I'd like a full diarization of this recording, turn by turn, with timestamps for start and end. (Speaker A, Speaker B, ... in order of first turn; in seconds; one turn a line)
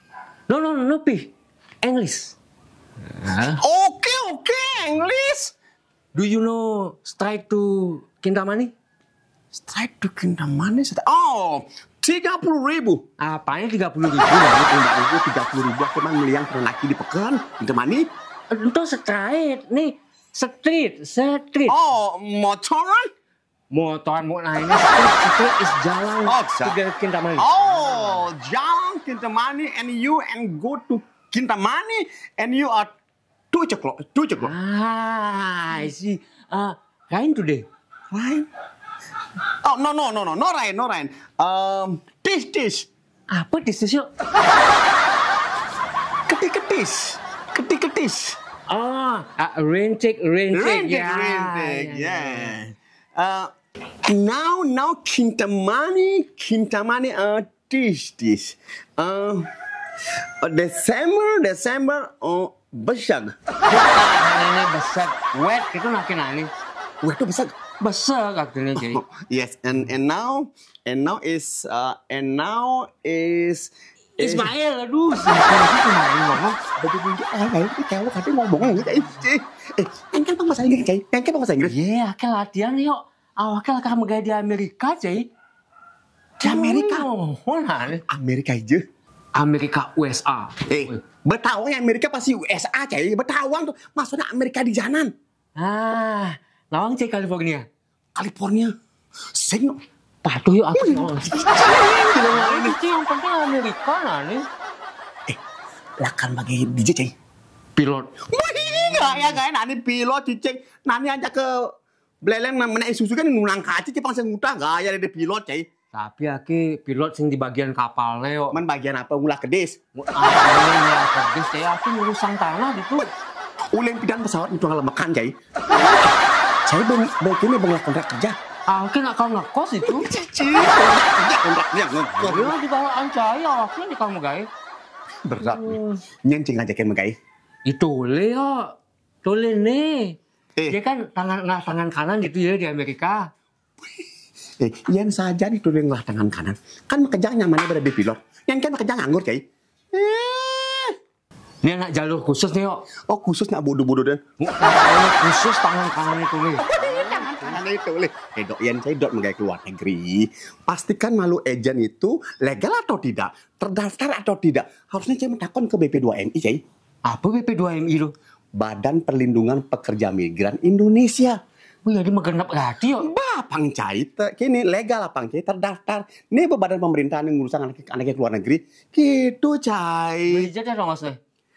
Speaker A: 0.5-2.3
Speaker A: 3.1-3.6
Speaker B: 3.5-5.5
Speaker A: 6.1-8.7
Speaker B: 9.5-13.0
Speaker A: 13.2-14.7
Speaker B: 14.6-18.0
Speaker A: 18.5-21.8
Speaker B: 21.7-23.1
Speaker A: 23.7-28.2
Speaker B: 26.2-26.8
Speaker B: 27.4-32.9
Speaker B: 33.5-34.5
Speaker A: 34.4-37.6
Speaker B: 38.1-38.5
Speaker B: 39.6-42.9
Speaker A: 43.3-44.1
Speaker B: 46.3-48.4
Speaker A: 48.7-52.6
Speaker B: 50.5-53.5
Speaker B: 54.1-59.5
Speaker B: 60.4-63.3
Speaker A: 63.7-66.5
Speaker B: 67.0-67.5
Speaker A: 67.8-69.0
Speaker B: 68.8-74.5
Speaker A: 74.2-76.6
Speaker B: 76.7-81.7
Speaker A: 81.7-85.3
Speaker B: 86.4-87.1
Speaker A: 86.4-88.0
Speaker B: 88.0-88.8
Speaker A: 89.3-91.0
Speaker B: 90.7-95.1
Speaker A: 95.6-97.6
Speaker B: 98.1-98.7
Speaker B: 99.3-99.8
Speaker A: 100.2-101.4
Speaker B: 100.7-102.8
Speaker A: 102.3-104.5
Speaker B: 106.0-107.1
Speaker A: 107.8-108.1
Speaker B: 108.3-111.7
Speaker B: 112.2-115.7
Speaker A: 115.9-118.6
Speaker B: 118.5-119.8
Speaker A: 119.9-123.1
Speaker B: 123.7-126.1
Speaker B: 126.7-128.3
Speaker A: 128.7-130.1
Speaker B: 129.8-132.6
Speaker A: 132.2-134.5
Speaker B: 135.2-137.1
Speaker A: 135.4-136.0
Speaker A: 137.6-140.2
Speaker A: 140.7-143.3
Speaker B: 144.6-149.4
Speaker B: 149.9-150.9
Speaker A: 151.6-152.8
Speaker B: 153.1-154.2
Speaker A: 154.4-157.4
Speaker B: 156.6-166.6
Speaker A: 167.1-168.1
Speaker B: 168.6-171.4
Speaker A: 171.8-173.1
Speaker B: 173.0-180.5
Speaker A: 180.3-181.2